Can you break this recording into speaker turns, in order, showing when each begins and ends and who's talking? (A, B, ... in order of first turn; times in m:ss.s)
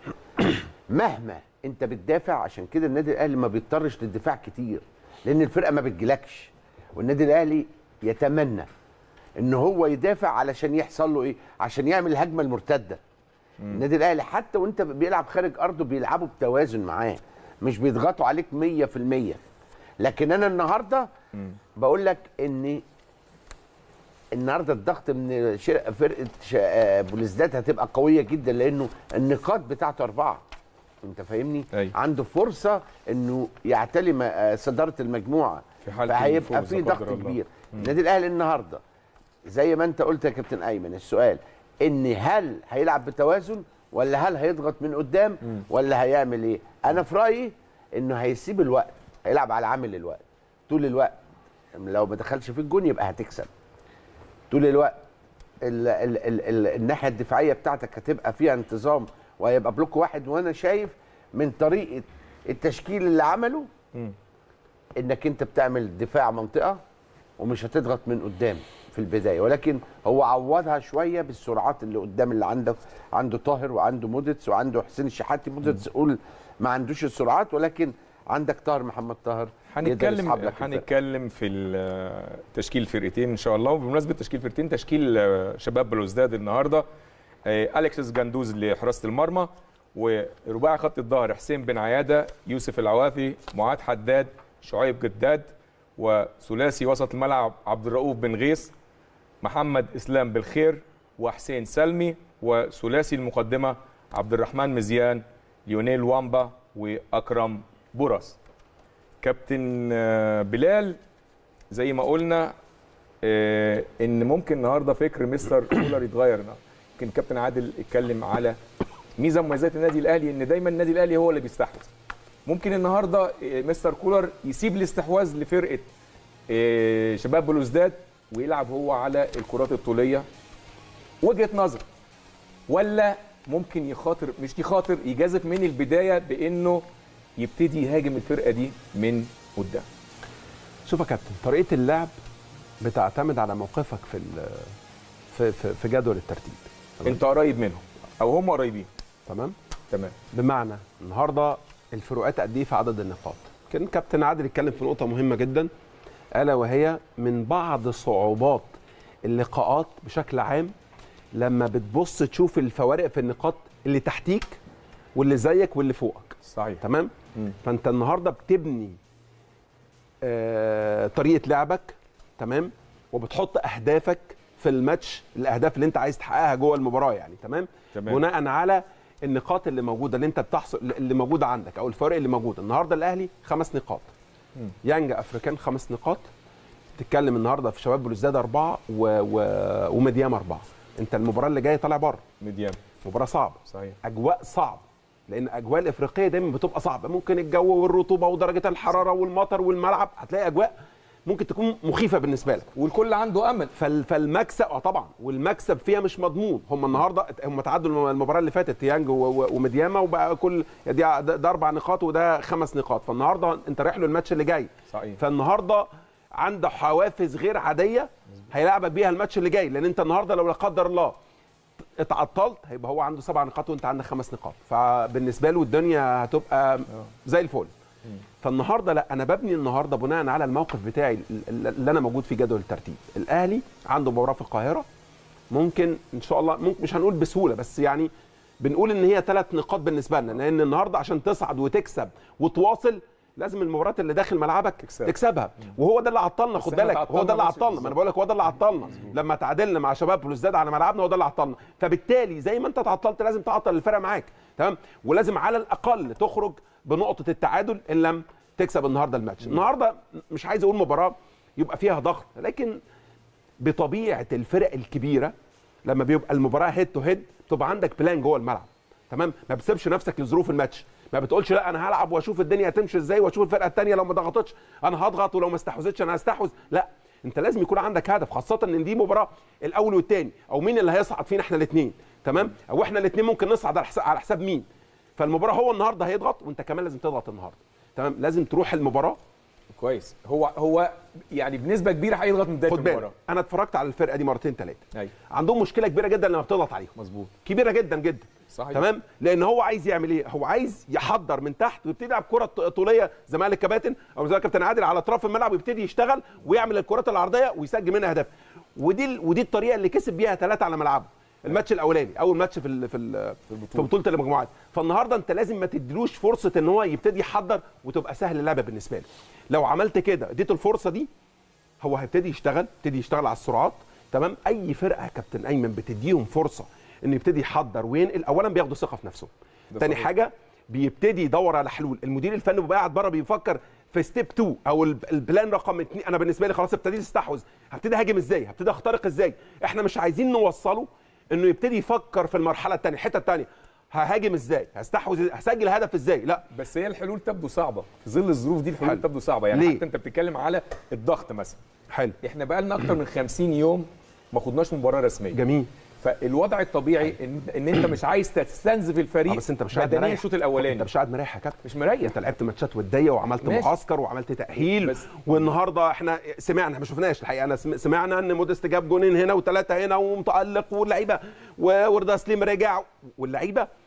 0:00.4-0:08.7 A
0:09.4-0:13.0 A
0:13.7-0:19.4 A
0:20.0-0:21.1 A
0:21.8-0:22.8 A
0:24.3-0:30.4 A
0:31.0-0:38.8 A
0:35.8-0:37.9 B
0:39.5-0:51.2 A
0:51.7-0:53.5 A
0:54.5-0:55.0 A
0:55.6-1:03.7 A
1:05.0-1:06.8 A
1:07.4-1:20.8 A
1:19.7-1:26.8 B
1:27.4-1:38.7 B
1:39.4-1:48.4 B
1:49.2-1:51.0 B
1:51.7-1:52.5 B
1:53.2-1:58.6 B
1:59.2-2:01.9 B
2:02.4-2:05.9 B
2:06.5-2:10.3 B
2:11.2-2:11.8 B
2:12.7-2:16.8 B
2:17.4-2:19.8 B
2:20.8-2:22.1 C
2:22.8-2:24.7 C
2:25.3-2:27.2 C
2:27.0-2:28.9 B
2:29.3-2:29.5 C
2:29.9-2:30.2 B
2:30.3-2:35.7 C
2:36.3-2:38.7 C
2:39.2-2:40.7 C
2:41.3-2:44.6 C
2:45.1-2:47.1 C
2:46.4-2:46.8 B
2:47.6-2:49.0 C
2:50.2-3:04.1 C
2:57.9-2:58.2 B
3:04.8-3:06.3 C
3:06.9-3:12.2 C
3:12.4-3:12.8 B
3:13.0-3:20.7 C
3:13.7-3:14.0 B
3:21.2-3:22.7 C
3:22.7-3:23.7 B
3:23.7-3:35.9 C
3:34.9-3:35.2 B
3:36.4-3:41.2 C
3:42.0-3:47.7 C
3:48.4-3:54.9 C
3:55.5-3:58.1 C
3:58.6-4:22.8 C
4:04.8-4:05.1 B
4:06.6-4:07.9 B
4:23.6-4:25.3 C
4:25.8-4:44.6 C
4:45.2-4:49.2 C
4:49.7-4:53.1 B
4:52.7-5:21.1 C
4:57.0-4:57.3 B
4:58.5-4:58.8 B
5:21.8-5:46.4 C
5:29.7-5:30.1 B
5:46.5-5:51.6 B
5:48.8-5:49.8 C
5:51.9-5:52.2 C
5:52.2-5:55.4 B
5:55.3-5:55.7 C
5:56.0-6:00.9 B
5:59.3-6:13.7 C
6:01.6-6:02.1 B
6:03.4-6:03.7 B
6:04.5-6:05.5 B